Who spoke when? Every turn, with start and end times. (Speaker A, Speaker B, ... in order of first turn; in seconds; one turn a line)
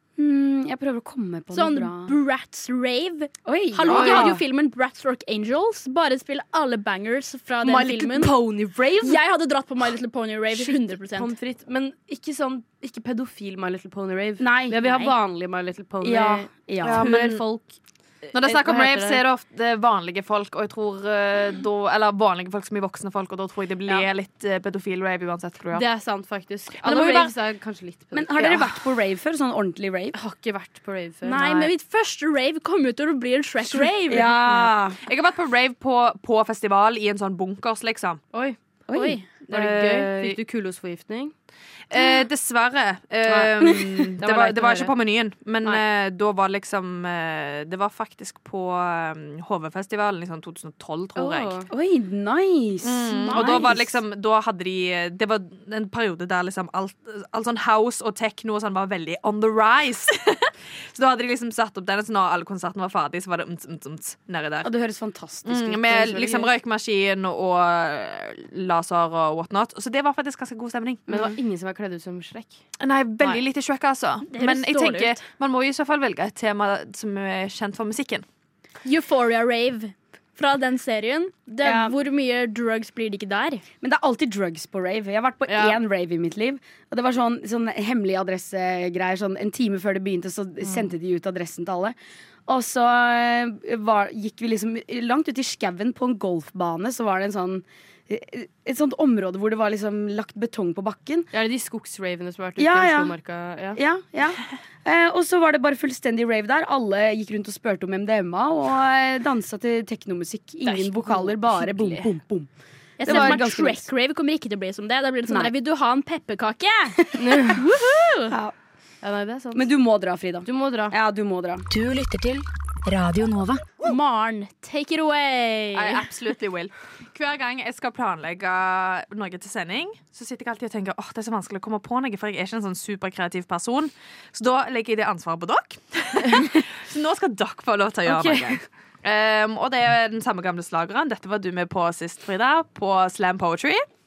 Speaker A: 0.2-2.2
Speaker B: 1.5-8.4
Speaker A: 3.4-4.4
Speaker C: 3.9-4.4
Speaker C: 7.6-9.2
Speaker B: 9.0-11.3
Speaker C: 10.5-19.2
Speaker A: 14.4-14.8
Speaker B: 14.8-15.2
Speaker A: 16.0-17.1
Speaker D: 16.8-17.4
Speaker D: 18.3-25.9
Speaker C: 25.7-28.7
Speaker D: 26.8-27.3
Speaker A: 28.1-30.2
Speaker C: 30.1-31.7
Speaker B: 31.2-34.3
Speaker A: 34.1-35.0
Speaker D: 35.0-38.2
Speaker A: 38.9-40.4
Speaker B: 38.9-39.2
Speaker C: 39.5-41.3
Speaker D: 41.9-51.6
Speaker C: 43.3-44.9
Speaker C: 51.1-51.7
Speaker A: 51.7-53.9
Speaker D: 52.8-64.7
Speaker B: 53.1-53.8
Speaker A: 64.6-66.5
Speaker D: 65.4-71.2
Speaker C: 71.1-72.6
Speaker D: 72.8-78.2
Speaker B: 74.3-75.2
Speaker B: 78.8-83.6
Speaker A: 81.6-81.9
Speaker A: 83.8-92.0
Speaker C: 85.5-85.8
Speaker A: 92.5-101.3
Speaker C: 101.3-103.8
Speaker A: 102.6-103.2
Speaker A: 103.7-112.5
Speaker C: 110.6-112.1
Speaker B: 113.0-118.3
Speaker A: 113.0-113.8
Speaker C: 113.1-113.3
Speaker A: 115.3-115.5
Speaker C: 117.2-117.6
Speaker A: 118.3-118.5
Speaker C: 119.0-119.7
Speaker A: 119.5-121.7
Speaker C: 120.4-120.9
Speaker E: 121.7-123.6
Speaker B: 123.8-126.0
Speaker D: 125.7-143.8
Speaker C: 138.1-138.6